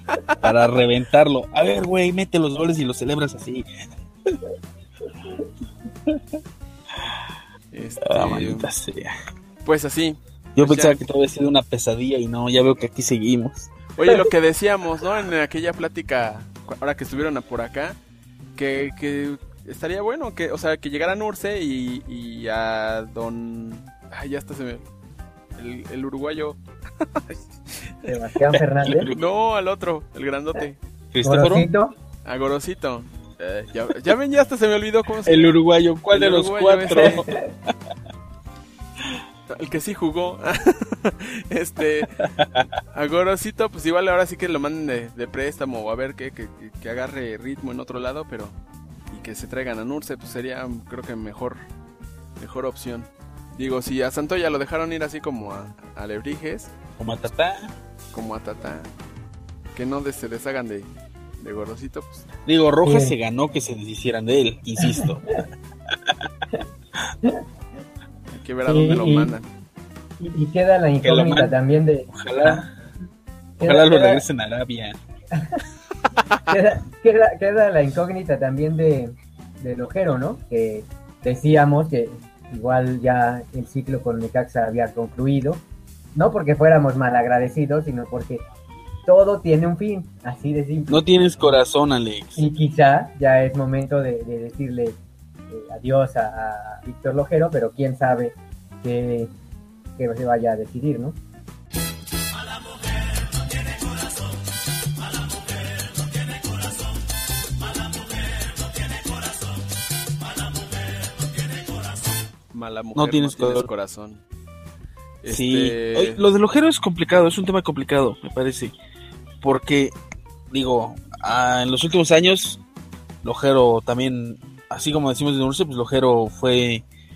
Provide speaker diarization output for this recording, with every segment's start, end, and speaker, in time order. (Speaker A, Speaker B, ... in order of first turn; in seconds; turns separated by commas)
Speaker A: 0.4-3.7, Speaker A: 6.9-7.2, Speaker B: 7.7-8.7, Speaker A: 8.0-9.1, Speaker B: 9.6-11.0, Speaker A: 10.6-13.7, Speaker B: 13.9-18.0, Speaker B: 18.6-24.8, Speaker B: 25.6-26.6, Speaker B: 27.1-27.4, Speaker C: 28.1-29.1, Speaker A: 28.8-29.2, Speaker B: 29.1-30.8, Speaker A: 31.1-31.7, Speaker C: 31.2-31.9, Speaker B: 32.2-35.5, Speaker A: 35.2-37.7, Speaker B: 36.1-37.2, Speaker B: 39.5-42.2, Speaker A: 42.2-42.7, Speaker B: 42.9-48.5, Speaker B: 49.1-51.6, Speaker B: 52.4-56.7, Speaker A: 57.0-57.7, Speaker B: 58.1-58.9, Speaker B: 59.7-62.3, Speaker A: 62.5-65.4, Speaker C: 62.8-63.1, Speaker B: 68.3-69.5, Speaker C: 68.7-69.3, Speaker C: 70.2-72.6, Speaker A: 71.0-71.5, Speaker A: 72.1-72.7, Speaker C: 73.6-74.2, Speaker A: 73.6-75.0, Speaker C: 75.3-75.6, Speaker C: 76.5-85.6, Speaker C: 86.1-88.4, Speaker C: 89.0-91.6, Speaker A: 90.9-92.5, Speaker C: 92.3-95.0, Speaker C: 95.5-99.3, Speaker C: 100.0-101.2, Speaker B: 112.5-114.2, Speaker A: 112.9-113.7, Speaker B: 115.2-116.2, Speaker A: 115.3-118.7, Speaker A: 119.4-119.9, Speaker A: 120.5-122.6, Speaker A: 123.2-126.8